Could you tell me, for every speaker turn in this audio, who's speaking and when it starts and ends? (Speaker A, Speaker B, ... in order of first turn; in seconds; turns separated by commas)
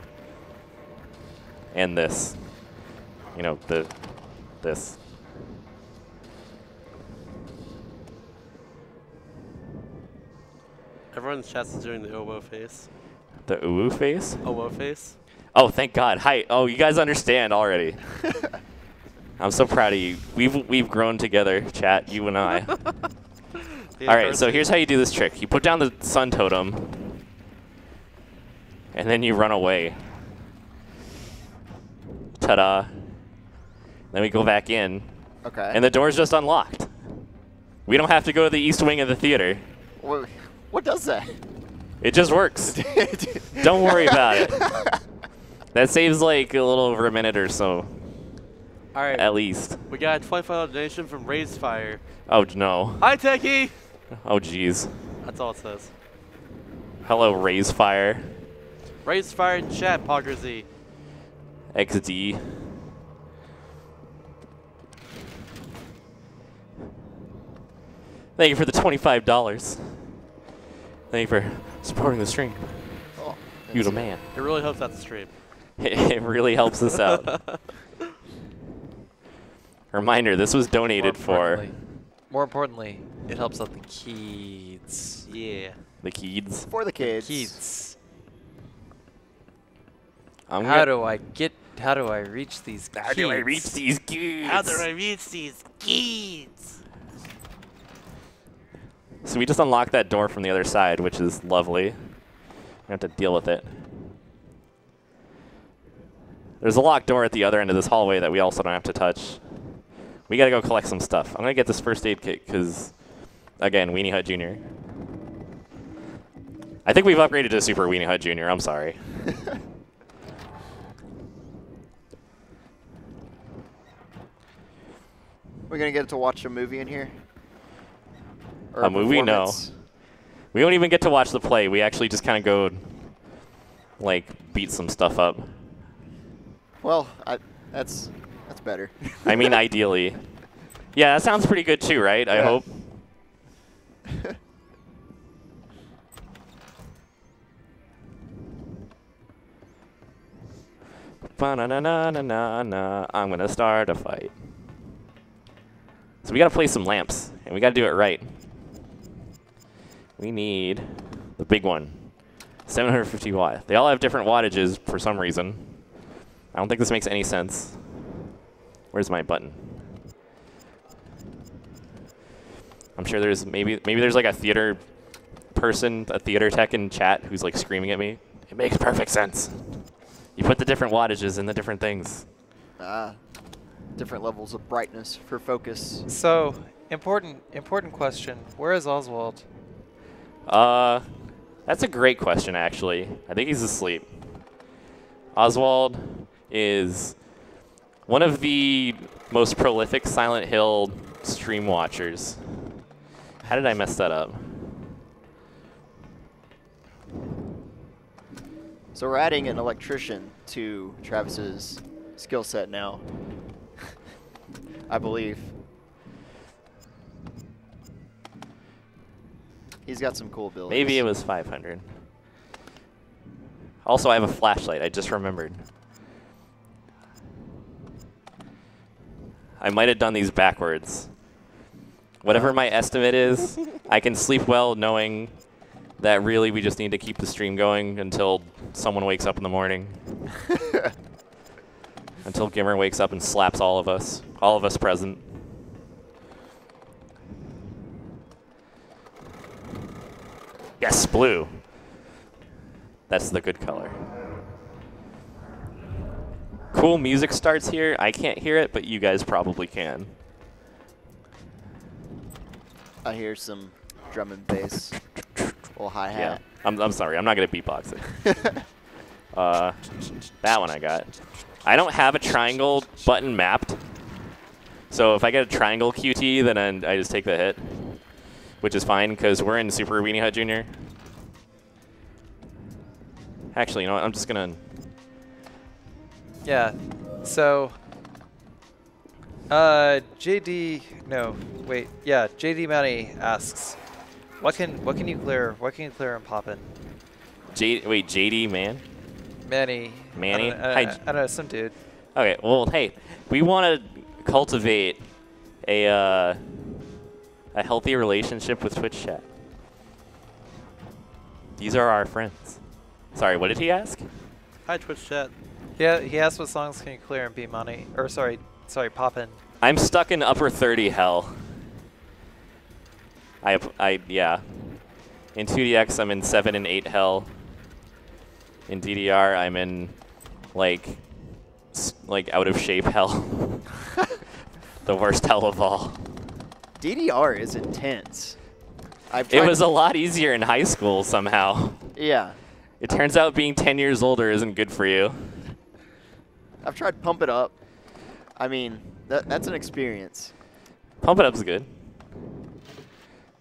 Speaker A: 1.7-2.4, Speaker A: 3.3-4.0, Speaker A: 4.6-5.0, Speaker B: 11.1-12.9, Speaker A: 13.5-14.4, Speaker B: 14.4-15.2, Speaker A: 15.5-18.0, Speaker A: 19.4-22.8, Speaker B: 24.0-24.7, Speaker A: 24.1-27.1, Speaker A: 28.9-30.0, Speaker A: 32.4-32.9, Speaker A: 34.1-35.1, Speaker C: 35.4-35.8, Speaker A: 35.7-36.9, Speaker A: 37.9-39.6, Speaker C: 40.0-41.4, Speaker A: 42.0-42.8, Speaker C: 42.7-45.0, Speaker A: 43.6-44.6, Speaker A: 45.7-47.9, Speaker B: 48.9-49.3, Speaker A: 49.1-49.8, Speaker B: 49.9-52.0, Speaker A: 52.3-53.1, Speaker B: 53.0-53.7, Speaker A: 54.1-54.9, Speaker B: 55.2-55.9, Speaker A: 57.0-58.3, Speaker B: 59.0-60.7, Speaker A: 61.7-62.4, Speaker A: 68.4-70.1, Speaker A: 71.1-73.1, Speaker C: 73.2-74.1, Speaker A: 73.7-74.3, Speaker B: 74.3-75.3, Speaker A: 75.8-77.3, Speaker B: 76.9-77.6, Speaker A: 79.9-81.7, Speaker D: 81.0-81.8, Speaker D: 82.3-85.3, Speaker B: 85.3-85.8, Speaker A: 86.0-86.7, Speaker C: 86.7-87.6, Speaker D: 87.0-88.0, Speaker A: 90.5-90.9, Speaker D: 90.6-93.8, Speaker A: 92.9-94.9, Speaker B: 94.4-96.8, Speaker A: 99.2-102.0, Speaker A: 102.9-103.7, Speaker A: 106.6-109.4, Speaker A: 110.3-113.0, Speaker A: 113.6-114.6, Speaker A: 116.8-119.0, Speaker C: 125.7-127.1, Speaker C: 128.7-129.7, Speaker A: 128.8-129.6, Speaker A: 130.5-133.1, Speaker A: 134.0-135.6, Speaker C: 136.8-139.6, Speaker A: 139.3-140.2, Speaker A: 140.9-142.8, Speaker C: 142.3-142.6, Speaker A: 151.3-154.3, Speaker A: 156.2-158.3, Speaker A: 160.2-162.1, Speaker A: 162.7-165.8, Speaker A: 166.5-167.8, Speaker A: 168.9-169.8, Speaker A: 173.0-174.8, Speaker A: 175.5-179.8, Speaker A: 180.4-182.3, Speaker C: 182.8-183.2, Speaker C: 184.0-186.1, Speaker D: 186.1-189.5, Speaker A: 190.5-191.1, Speaker A: 191.7-194.1, Speaker A: 195.3-197.2, Speaker A: 198.1-202.4, Speaker A: 203.4-204.6, Speaker C: 208.9-213.0, Speaker C: 214.9-215.5, Speaker C: 219.9-221.1, Speaker A: 220.7-221.9, Speaker A: 223.8-225.6, Speaker A: 229.6-231.1, Speaker A: 232.2-235.3, Speaker C: 232.3-232.6, Speaker A: 236.0-240.0, Speaker C: 240.5-240.9, Speaker A: 242.2-245.3, Speaker A: 250.8-251.5, Speaker A: 253.1-254.0, Speaker A: 256.7-260.2, Speaker C: 263.1-265.0, Speaker A: 265.2-268.3, Speaker C: 265.8-266.4, Speaker C: 268.3-268.6, Speaker A: 269.3-269.8, Speaker A: 270.4-271.1, Speaker A: 271.6-273.8, Speaker A: 274.9-277.8, Speaker A: 278.6-280.7, Speaker A: 283.5-284.6, Speaker D: 286.4-287.8, Speaker D: 289.5-293.8, Speaker D: 294.4-296.7, Speaker A: 297.5-298.8, Speaker D: 299.4-301.8, Speaker A: 300.1-301.0, Speaker A: 302.1-305.1, Speaker A: 305.6-306.4, Speaker A: 307.5-309.3, Speaker A: 311.6-312.6, Speaker A: 313.1-314.1, Speaker B: 314.7-315.3, Speaker D: 315.8-319.4, Speaker A: 319.6-321.5, Speaker A: 323.4-324.4, Speaker A: 325.4-327.3, Speaker A: 328.7-330.0, Speaker A: 330.5-331.0, Speaker A: 331.7-333.7, Speaker A: 334.9-336.0, Speaker C: 336.8-338.4, Speaker C: 339.1-339.6, Speaker A: 339.3-341.8, Speaker C: 341.9-342.4, Speaker A: 342.8-345.3, Speaker C: 346.6-347.5, Speaker C: 348.4-350.3, Speaker A: 351.0-351.7